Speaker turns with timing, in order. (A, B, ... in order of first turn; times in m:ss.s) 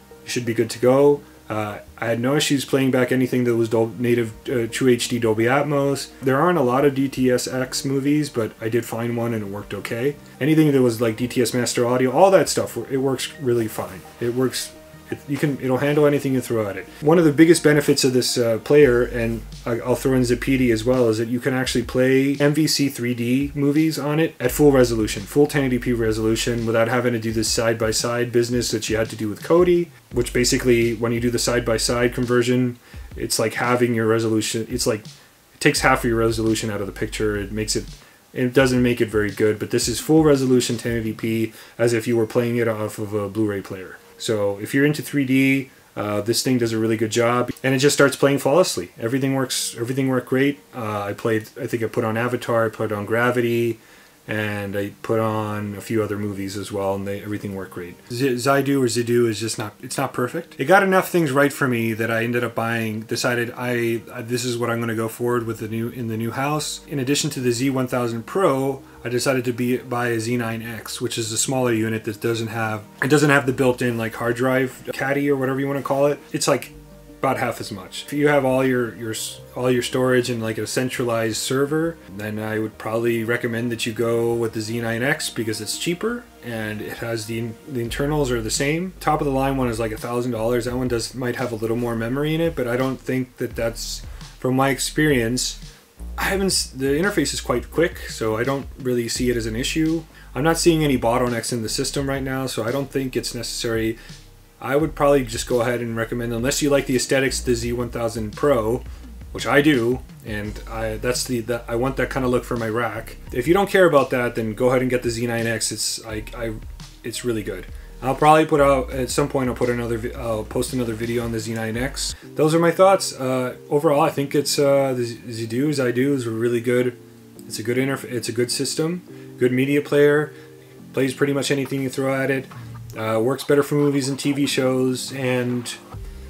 0:00.2-1:35.6 A
1:36.2-1:44.0 A
1:44.6-2:10.3 A
2:10.9-2:15.8 A